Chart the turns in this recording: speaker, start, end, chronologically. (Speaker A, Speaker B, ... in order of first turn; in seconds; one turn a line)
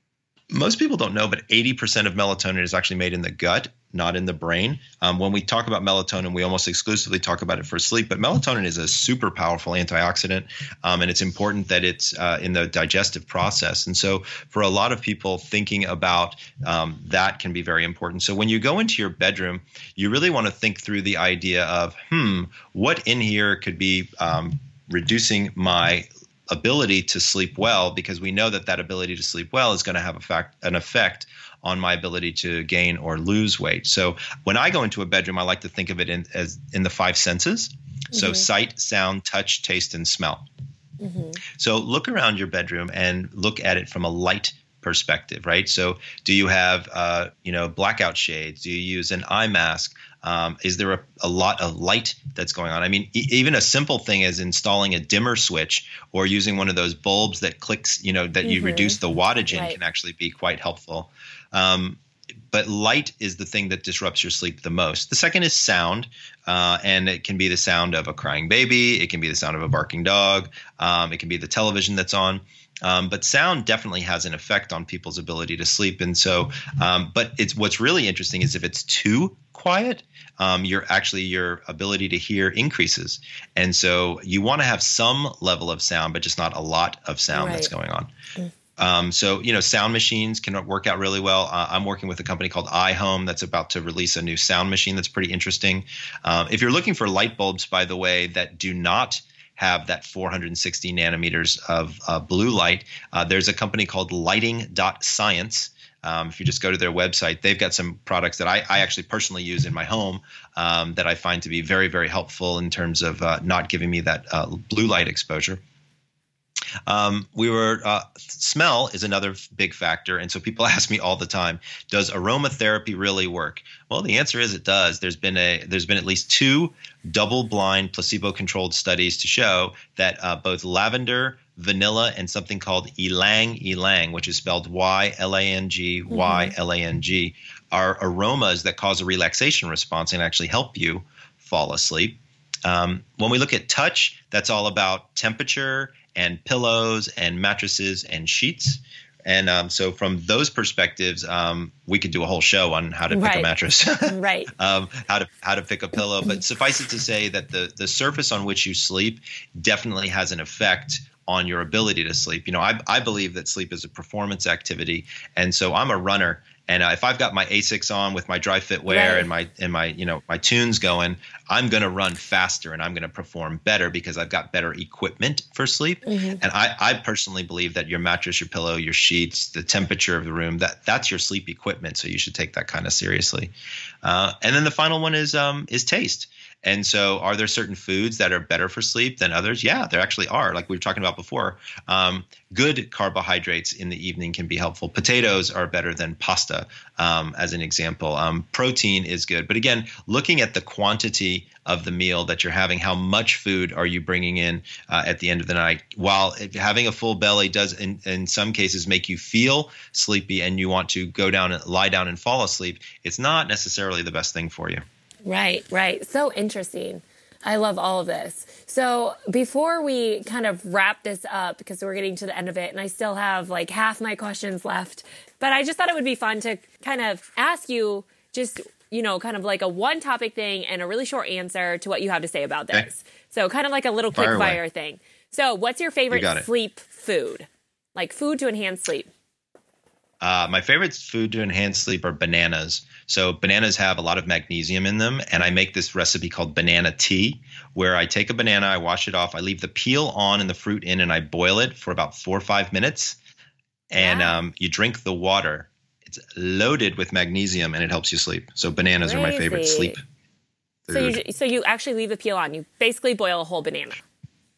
Speaker A: 0.5-40.5
Speaker B: 38.1-38.4
Speaker B: 41.0-41.4
Speaker A: 41.5-88.1
Speaker B: 58.4-59.0
Speaker B: 59.5-59.8
Speaker B: 87.3-87.7
Speaker A: 88.8-115.6
Speaker A: 116.9-183.5
Speaker B: 136.1-136.5
Speaker B: 153.1-153.5
Speaker B: 154.0-154.5
Speaker B: 168.9-169.3
Speaker B: 176.0-176.4
Speaker A: 184.0-214.8
Speaker B: 215.2-239.1
Speaker A: 234.1-234.6
Speaker A: 236.1-236.5
Speaker A: 240.2-253.2
Speaker A: 253.9-260.0
Speaker B: 253.9-254.3
Speaker B: 259.0-260.0
Speaker A: 260.9-261.2
Speaker B: 260.9-264.0